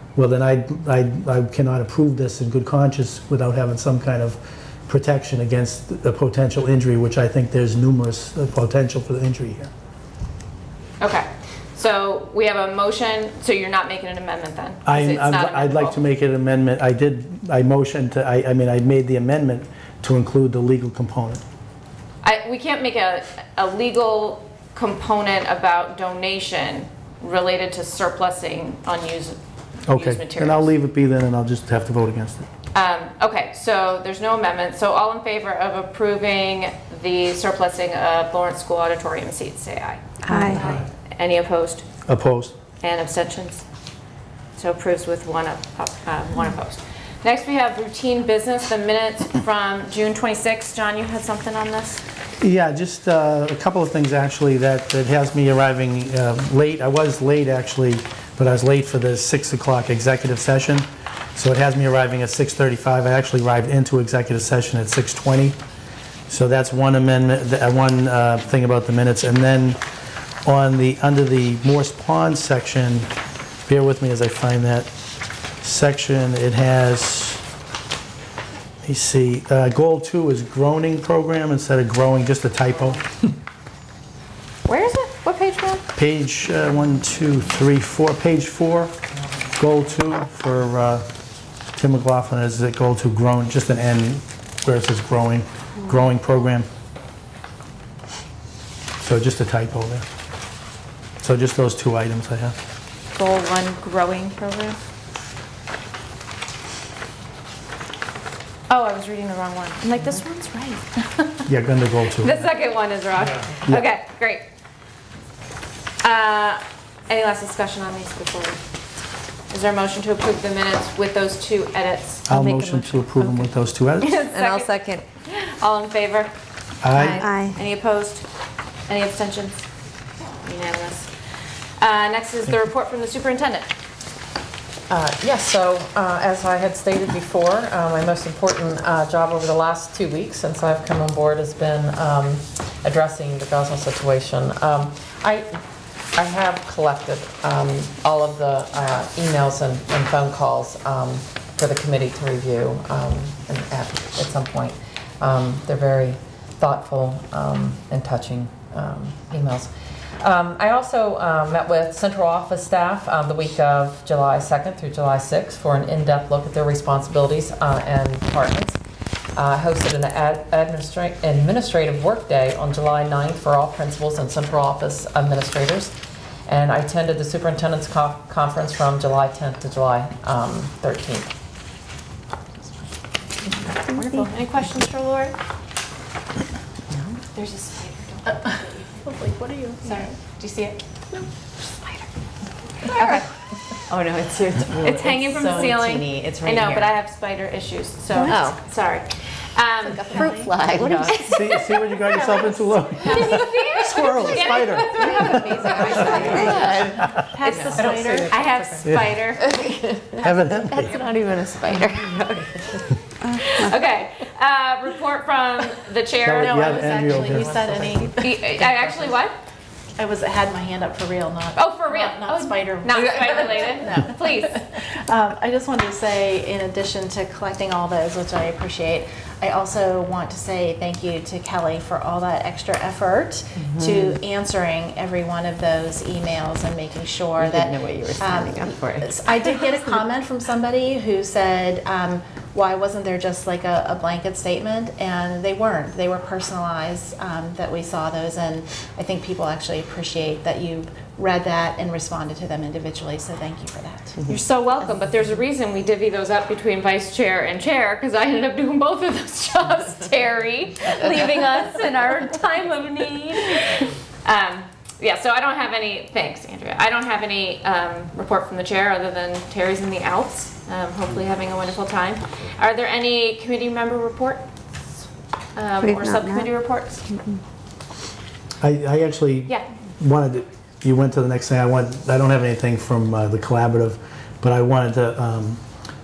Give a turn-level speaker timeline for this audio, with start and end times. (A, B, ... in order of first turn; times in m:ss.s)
0:00.2-0:09.7 A
0:11.0-0:16.0 B
0:14.9-0:21.4 A
0:22.2-0:30.7 B
0:29.9-0:32.5 A
0:32.7-0:41.9 B
0:40.3-0:40.6 C
0:42.1-0:42.6 A
0:42.8-0:43.6 B
0:44.6-0:52.0 B
0:52.4-1:05.6 A
1:06.3-1:09.8 A
1:10.4-1:13.1 A
1:13.7-1:14.9 A
1:15.6-1:17.4 A
1:18.8-1:23.0 A
1:24.7-1:25.8 B
1:26.0-1:28.9 A
1:29.6-1:31.0 A
1:31.8-1:36.7 A
1:39.0-1:40.1 A
1:41.2-1:42.6 A
1:43.2-1:44.8 B
1:48.7-1:51.5 B
1:51.5-1:52.4 A
1:52.2-1:54.4 B
1:56.0-1:58.6 B
1:59.5-2:02.3 B
2:02.3-2:04.1 A
2:02.3-2:02.9 C
2:04.0-2:04.7 B
2:04.4-2:05.0 C
2:05.2-2:06.3 B
2:06.8-2:07.3 A
2:07.0-2:08.2 B
2:07.2-2:07.6 C
2:08.9-2:09.6 B
2:10.4-2:11.1 B
2:11.8-2:13.7 B
2:14.9-2:25.6 D
2:26.2-2:48.8 D
2:49.4-2:55.9 D
2:56.5-3:01.3 D
3:03.7-3:05.4 B
3:07.3-3:09.0 B
3:09.0-3:10.0 E
3:09.8-3:11.2 B
3:12.9-3:13.2 B
3:13.9-3:15.6 F
3:14.8-3:20.2 B
3:15.4-3:16.6 E
3:16.6-3:16.9 F
3:18.2-3:18.6 F
3:19.9-3:20.6 E
3:20.0-3:21.4 F
3:20.8-3:21.6 B
3:21.3-3:25.7 A
3:22.1-3:29.6 B
3:23.8-3:24.4 E
3:25.4-3:28.5 E
3:26.1-3:27.0 F
3:27.8-3:28.3 D
3:28.8-3:29.2 A
3:30.2-3:30.9 A
3:30.6-3:32.4 F
3:33.3-3:37.1 B
3:36.2-3:38.0 A
3:36.4-3:38.5 E
3:38.1-3:39.4 B
3:40.0-4:14.2 E
3:41.6-3:44.6 B
3:53.6-3:54.2 F
3:57.4-3:59.2 F
4:14.3-4:34.5 B
4:35.6-4:37.0 B
4:35.9-4:36.3 C
4:38.6-4:45.6 A